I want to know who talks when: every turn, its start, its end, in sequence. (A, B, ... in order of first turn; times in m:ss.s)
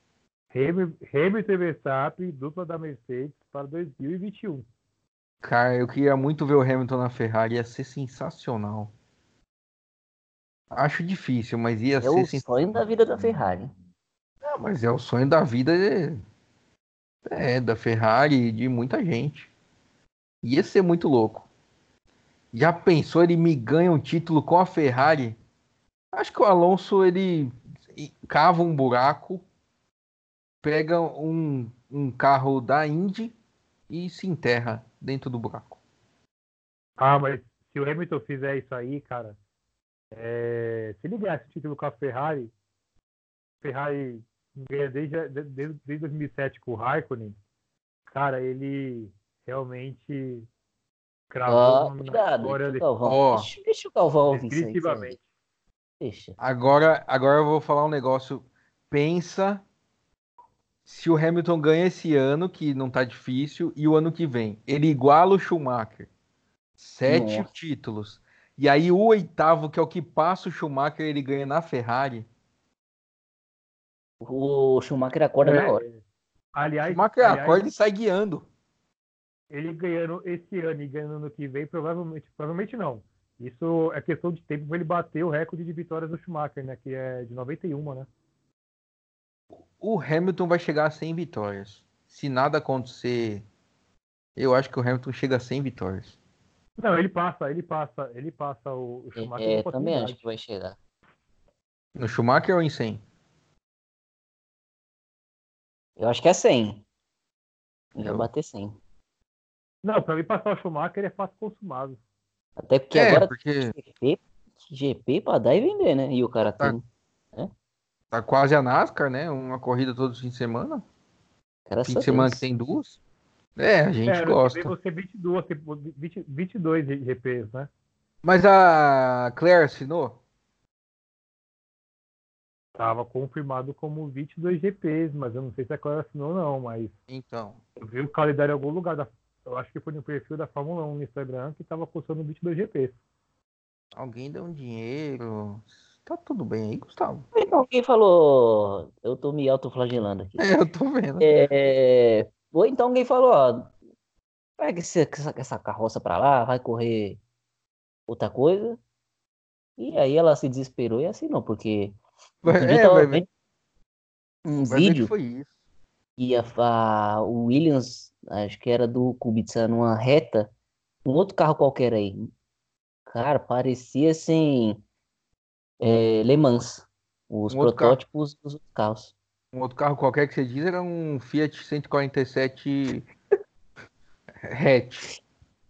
0:00.5-0:04.6 A
0:05.4-0:08.9 B
0:10.7-0:12.8 B
0:12.0-0:13.7 C
0:14.4-0:16.2 B
0:17.3-0:19.5 B
0:20.4-0:21.5 B
0:22.5-0:25.4 B
0:26.1-0:29.4 B
0:30.6-0:33.3 B
0:33.9-0:35.8 B
0:37.0-0:39.4 A
0:40.1-0:42.5 A
0:43.6-0:47.4 A
0:48.1-0:50.5 A
0:51.3-0:52.8 A
0:51.4-0:55.2 C
0:53.0-0:53.5 B
0:54.3-0:55.2 A
0:56.0-0:56.4 C
0:56.4-0:59.6 B
1:00.8-1:06.1 B
1:06.8-1:12.2 B
1:07.0-1:07.5 C
1:14.2-1:15.8 C
1:15.4-1:16.0 A
1:16.5-1:17.7 A
1:16.8-1:18.4 B
1:19.5-1:28.1 A
1:29.8-1:33.4 B
1:34.4-1:36.2 B
1:36.8-1:40.2 A
1:39.2-1:40.8 C
1:41.9-1:43.0 B
1:46.0-1:46.8 C
1:48.0-1:48.3 B
1:48.0-1:48.8 C
1:49.8-1:52.0 A
1:52.6-1:56.8 C
1:52.9-1:53.7 B
1:58.1-2:00.8 B
2:01.7-2:02.4 C
2:01.8-2:03.0 B
2:03.6-2:04.7 B
2:04.0-2:07.7 A
2:08.2-2:10.2 B
2:12.7-2:16.9 A
2:17.1-2:17.6 B
2:17.8-2:23.0 A
2:23.9-2:27.3 B
2:27.3-2:30.4 C
2:30.4-2:31.5 B
2:31.2-2:33.7 C
2:34.6-2:37.2 C
2:38.1-2:38.8 C
2:39.8-2:43.3 C
2:42.4-2:43.2 B
2:44.4-2:45.1 C
2:44.7-2:45.5 B
2:46.2-2:50.5 C
2:51.0-2:52.3 C
2:53.1-2:54.8 C
2:55.8-2:59.1 C
2:57.5-2:58.0 B
2:59.5-3:03.0 B
3:04.4-3:05.1 B